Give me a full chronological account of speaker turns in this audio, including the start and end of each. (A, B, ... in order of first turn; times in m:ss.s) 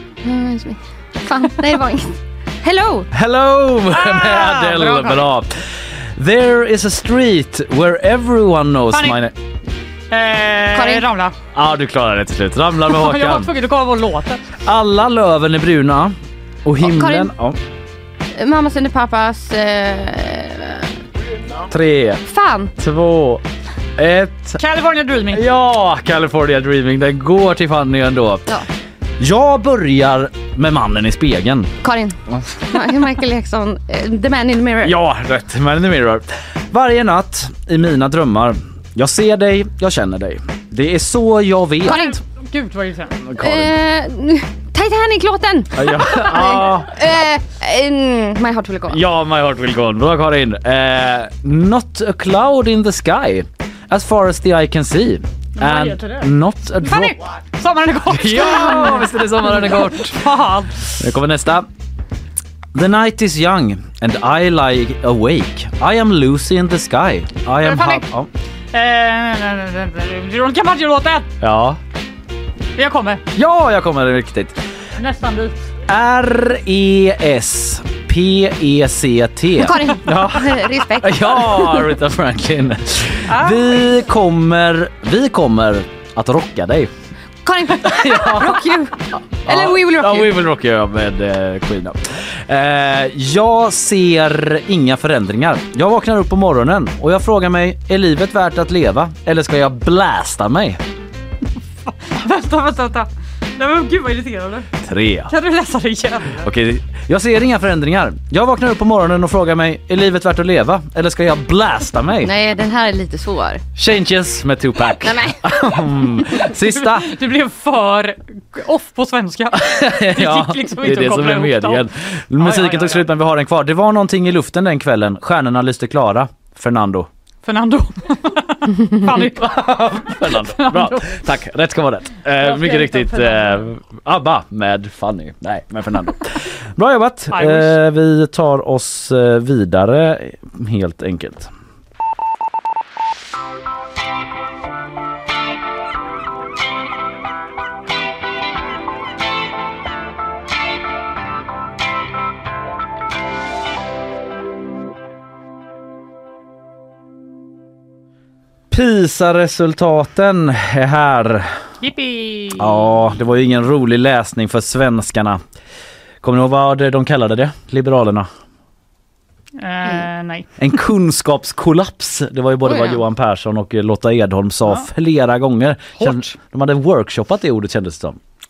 0:00.2-0:03.1 A
0:03.1-0:09.3 B
0:03.9-0:05.3 C
0:08.9-0:09.2 C
0:10.1-0:11.4 C
0:10.7-0:11.0 A
0:11.5-0:13.5 B
0:12.9-0:14.5 C
0:14.6-0:17.6 B
0:16.8-0:17.3 A
0:18.3-0:20.9 A
0:21.7-0:22.2 B
0:22.2-0:22.7 A
0:22.8-0:23.4 B
0:24.0-0:24.6 B
0:24.6-0:25.4 C
0:25.3-0:28.5 B
0:29.2-0:31.7 B
0:31.8-0:32.2 A
0:32.7-0:34.9 A
0:34.8-0:42.1 B
0:41.8-0:42.1 A
0:41.8-0:43.2 C
0:43.3-0:43.7 B
0:43.4-0:49.0 A
0:45.7-0:47.0 B
0:48.9-0:57.2 B
0:55.6-0:56.3 C
0:56.8-1:01.0 C
0:58.1-1:00.2 B
1:01.0-1:01.7 B
1:02.7-1:08.3 B
1:07.6-1:08.0 C
1:08.7-1:11.3 C
1:11.4-1:11.8 B
1:12.8-1:13.2 C
1:13.3-1:14.6 B
1:15.0-1:15.6 C
1:15.9-1:26.9 B
1:19.6-1:21.9 A
1:23.3-1:23.8 C
1:27.4-1:28.9 A
1:27.8-1:28.7 B
1:29.4-1:40.8 B
1:29.5-1:30.3 A
1:41.8-1:44.7 C
1:44.8-1:45.3 B
1:45.3-1:46.4 C
1:46.4-1:52.3 B
1:52.2-1:53.6 A
1:53.7-1:57.1 B
1:55.0-1:55.4 A
1:56.5-2:01.8 C
1:59.5-2:07.1 B
2:02.4-2:03.1 C
2:07.4-2:11.2 C
2:09.1-2:21.5 B
2:12.4-2:13.7 C
2:17.3-2:17.8 C
2:38.7-2:41.5 B
2:41.8-2:42.9 C
2:42.6-2:45.4 B
2:46.2-2:48.3 B
2:49.6-2:50.5 C
2:50.6-2:58.2 B
2:52.6-2:53.0 A
2:56.0-2:56.4 C